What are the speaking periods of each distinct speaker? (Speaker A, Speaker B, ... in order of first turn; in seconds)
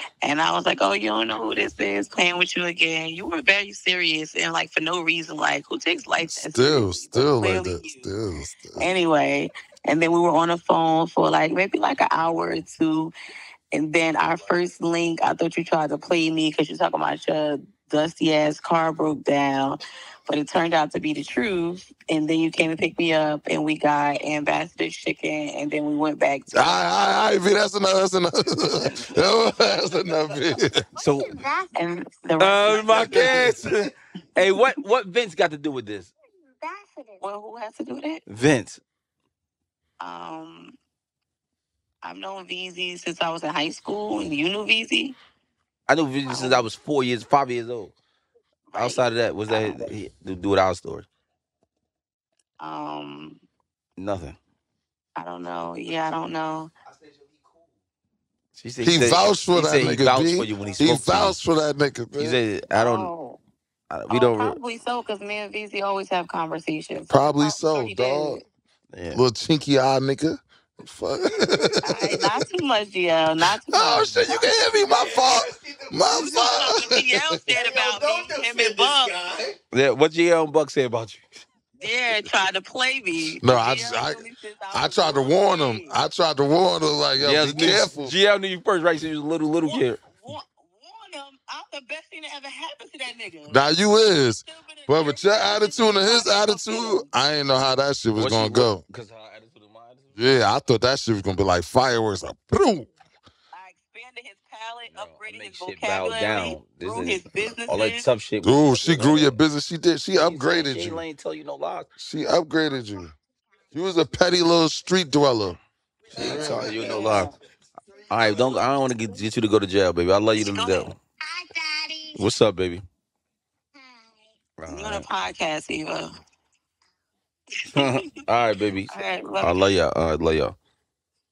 Speaker A: 0.2-8.1, 8.8-13.1, 13.7-26.8, 31.7-33.5, 37.2-38.2, 40.0-40.8, 42.0-45.2, 46.3-46.7, 48.7-49.9, 52.6-53.4, 55.2-56.7, 62.8-63.4, 64.1-68.4, 71.8-74.5, 76.2-79.2, 81.8-86.0, 89.7-93.6, 94.5-97.1, 103.5-108.1, 116.3-117.3, 120.3-121.0, 121.5-122.1, 124.7-126.1, 127.8-128.1, 128.9-129.7
Speaker B: 6.2-8.9, 26.5-30.8, 33.0-33.5, 58.8-62.4, 67.1-68.4, 69.1-72.2, 73.7-77.4, 83.4-88.2, 93.5-98.8, 100.2-102.9, 108.4-111.0, 112.0-113.2, 113.7-115.6, 116.2-116.7
Speaker C: 31.0-31.4, 32.4-36.1, 38.3-38.8, 45.9-48.0, 48.8-51.1, 54.0-54.4, 58.6-61.4, 62.2-63.1, 63.9-64.6, 68.9-69.2, 79.7-81.2, 87.2-90.0, 98.2-100.2, 104.9-109.4, 110.2-111.9, 116.1-117.3, 118.1-121.0, 122.2-122.8, 124.6-125.1, 127.7-130.6
Speaker D: 31.2-31.7, 36.6-37.2, 75.0-76.0, 77.6-79.5, 116.1-117.2, 123.8-124.2